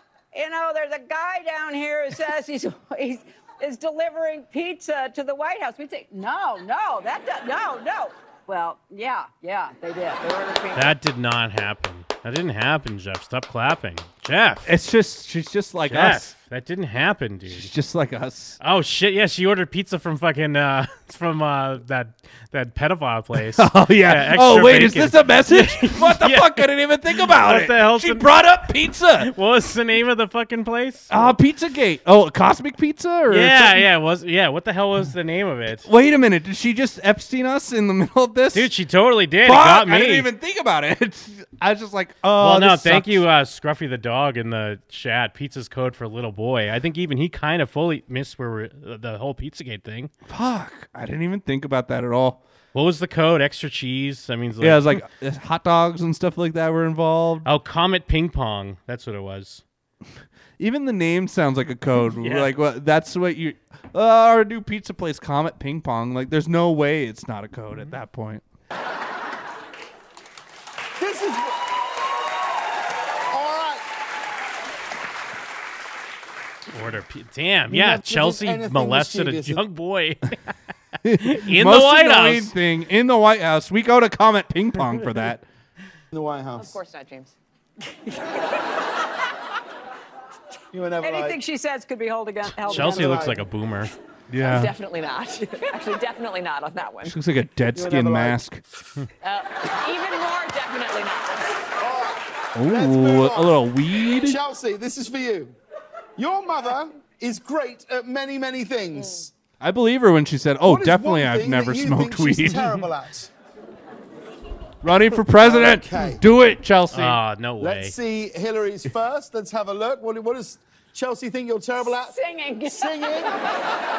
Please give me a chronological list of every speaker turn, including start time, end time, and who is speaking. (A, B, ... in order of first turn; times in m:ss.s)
0:00.3-0:10.8 A
0:10.7-0:14.8 B
0:14.7-0:16.3 C
0:15.9-0:17.7 B
0:17.5-0:18.6 C
0:18.6-0:28.4 B
0:23.5-0:29.3 C
0:29.2-0:31.3 B
0:31.1-0:33.9 C
0:33.3-0:35.9 B
0:35.8-0:38.7 C
0:38.5-0:40.3 B
0:39.4-0:43.2 C
0:42.4-0:50.1 B
0:50.3-0:52.4 C
0:52.7-0:55.0 B
0:54.6-0:57.5 C
0:57.4-0:59.6 B
1:00.6-1:08.4 C
1:02.2-1:02.5 B
1:11.0-1:11.5 D
1:13.3-1:13.8 D
1:16.7-1:20.4 B
1:17.7-1:19.6 D
1:21.0-1:25.4 C
1:21.2-1:22.5 B
1:26.1-1:26.8 D
1:26.6-1:27.3 E
1:30.7-1:31.4 D
1:31.0-1:33.3 A
1:32.6-1:33.4 D
1:32.7-1:33.9 B
1:34.3-1:34.7 C
1:34.4-1:37.2 E
1:37.0-1:38.6 C
1:37.7-1:38.4 D
1:39.2-1:41.6 E
1:41.8-1:45.6 D
1:42.6-1:44.4 C
1:46.2-1:49.3 D
1:49.0-1:49.2 E
1:49.6-1:52.8 C
1:50.6-1:53.3 D
1:54.8-1:57.2 C
1:55.4-1:56.2 D
1:56.9-1:58.0 B
1:57.6-2:03.3 D
2:02.1-2:03.2 A